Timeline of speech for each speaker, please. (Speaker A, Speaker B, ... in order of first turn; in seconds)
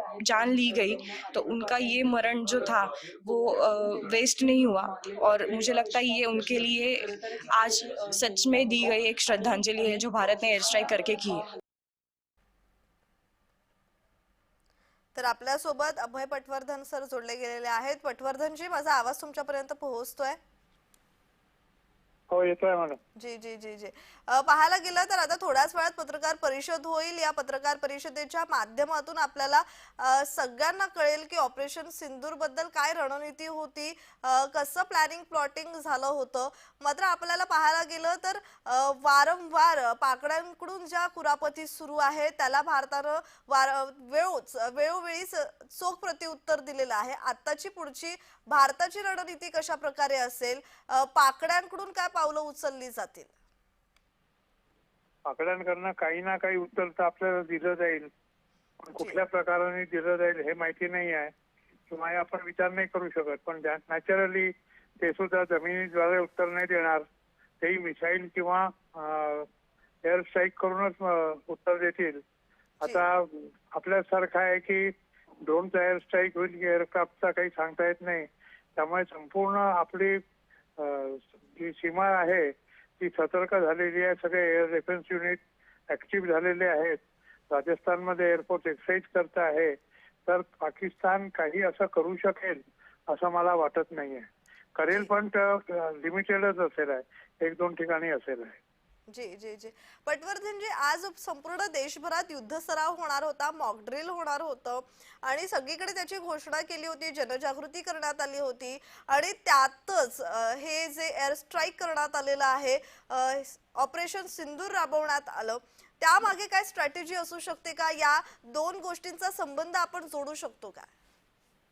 Speaker A: 0.2-11.4
Speaker B: 15.1-20.4, 23.2-53.3, 99.1-120.9
Speaker C: 22.3-23.0, 55.2-58.1, 58.8-61.3, 61.9-67.0, 67.6-69.5, 70.0-72.2, 72.8-74.9, 75.5-80.2, 80.8-85.4, 85.9-87.0, 87.5-89.8, 90.3-98.6